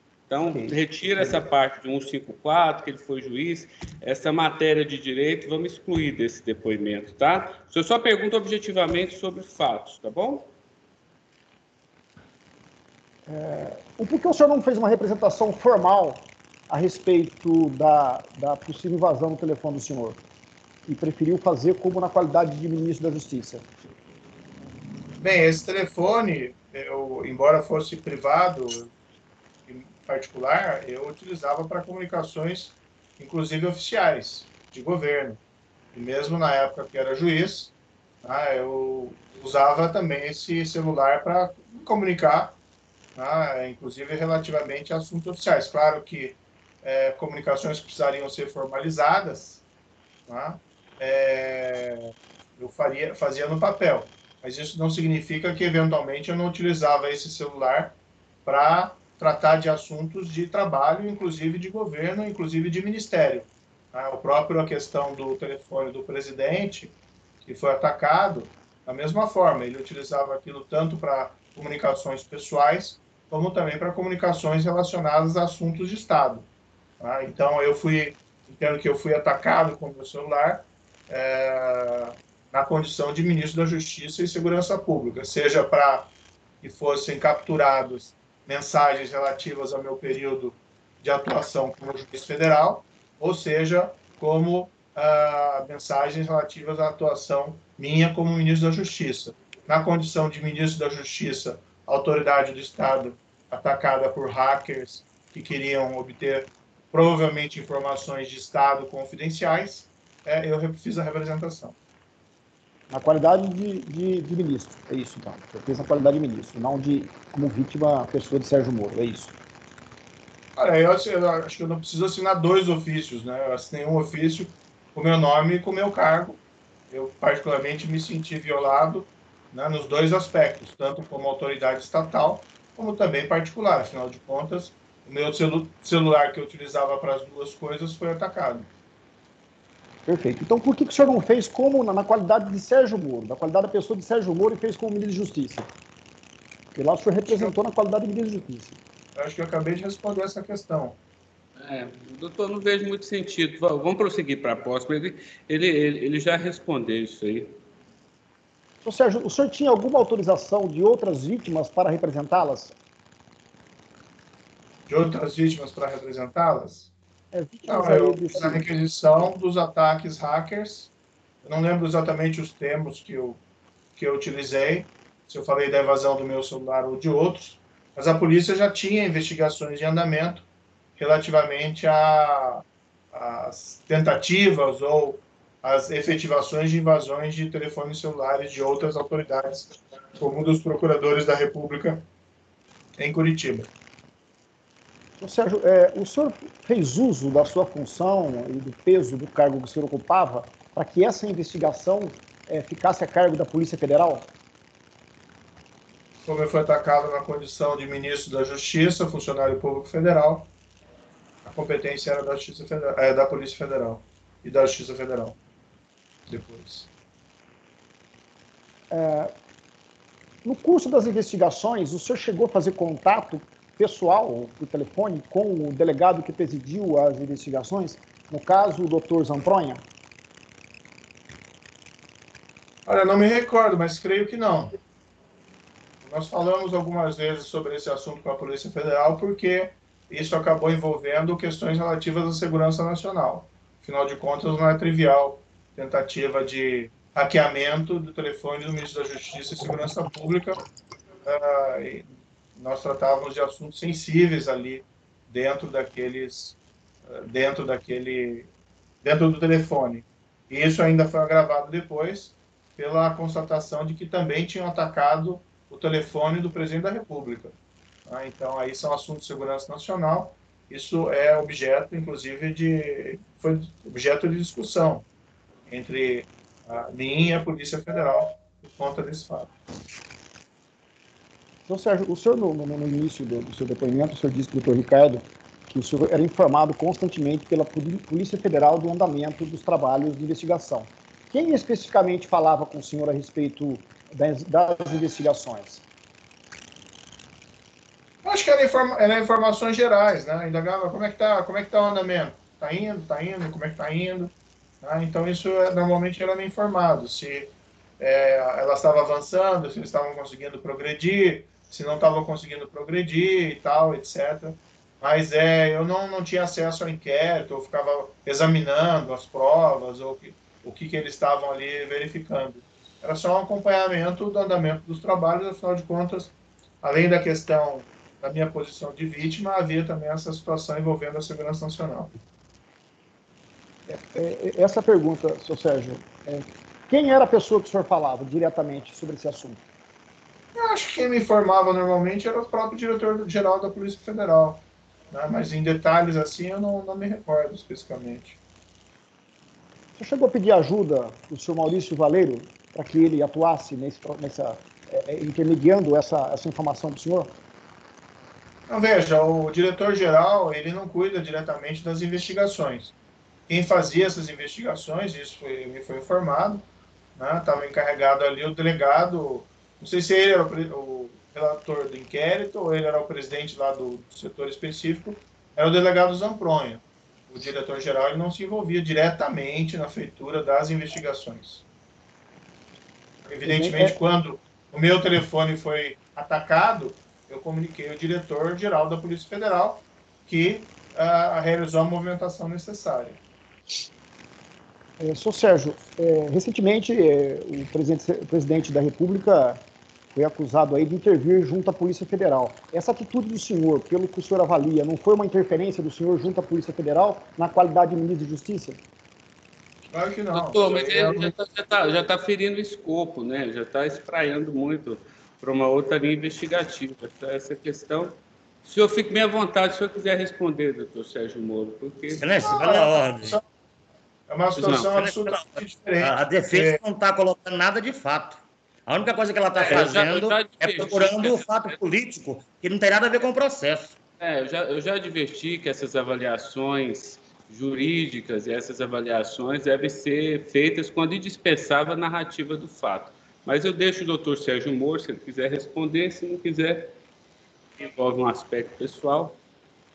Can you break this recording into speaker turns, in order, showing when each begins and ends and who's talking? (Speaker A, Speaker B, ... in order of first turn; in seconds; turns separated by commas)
Speaker A: 0.3-10.5, Speaker B: 13.3-20.2, Speaker B: 20.9-23.6, Speaker C: 25.2-28.9, Speaker C: 29.7-35.4, Speaker C: 35.9-37.7, Speaker C: 38.2-42.5, Speaker C: 43.1-49.6, Speaker C: 50.3-66.9, Speaker C: 67.4-76.5, Speaker C: 77.0-86.1, Speaker C: 86.6-111.8, Speaker B: 112.9-119.3, Speaker C: 120.5-126.4, Speaker C: 126.9-138.7, Speaker B: 140.1-145.7, Speaker B: 146.7-148.8, Speaker C: 147.3-147.5, Speaker C: 149.2-150.9, Speaker A: 151.6-157.5, Speaker B: 158.8-162.7, Speaker C: 164.9-166.9, Speaker B: 167.3-168.7, Speaker C: 167.7-170.9, Speaker C: 171.4-173.4, Speaker C: 173.9-180.4, Speaker C: 181.0-192.0, Speaker C: 193.0-193.7, Speaker B: 195.2-204.3, Speaker C: 206.2-210.5, Speaker C: 211.4-215.4, Speaker C: 216.3-216.9, Speaker B: 218.9-219.3, Speaker B: 220.4-229.8, Speaker C: 232.8-234.8, Speaker C: 236.0-250.6, Speaker C: 251.2-258.5, Speaker C: 259.0-267.5, Speaker C: 268.1-275.0, Speaker C: 275.7-279.5, Speaker B: 281.7-295.8, Speaker C: 298.2-332.1, Speaker B: 333.9-339.6, Speaker C: 340.6-348.4, Speaker B: 350.0-357.3, Speaker C: 358.7-362.9, Speaker C: 363.5-366.6, Speaker C: 367.1-381.6, Speaker C: 383.3-393.2, Speaker B: 383.4-384.0, Speaker B: 395.0-399.6, Speaker B: 400.1-408.8, Speaker C: 409.9-411.3, Speaker A: 410.3-422.2, Speaker D: 422.2-423.4, Speaker C: 422.4-423.4, Speaker C: 424.3-426.8, Speaker A: 424.6-424.9, Speaker D: 424.9-433.9, Speaker A: 429.5-431.8, Speaker A: 434.2-446.9, Speaker A: 447.8-449.4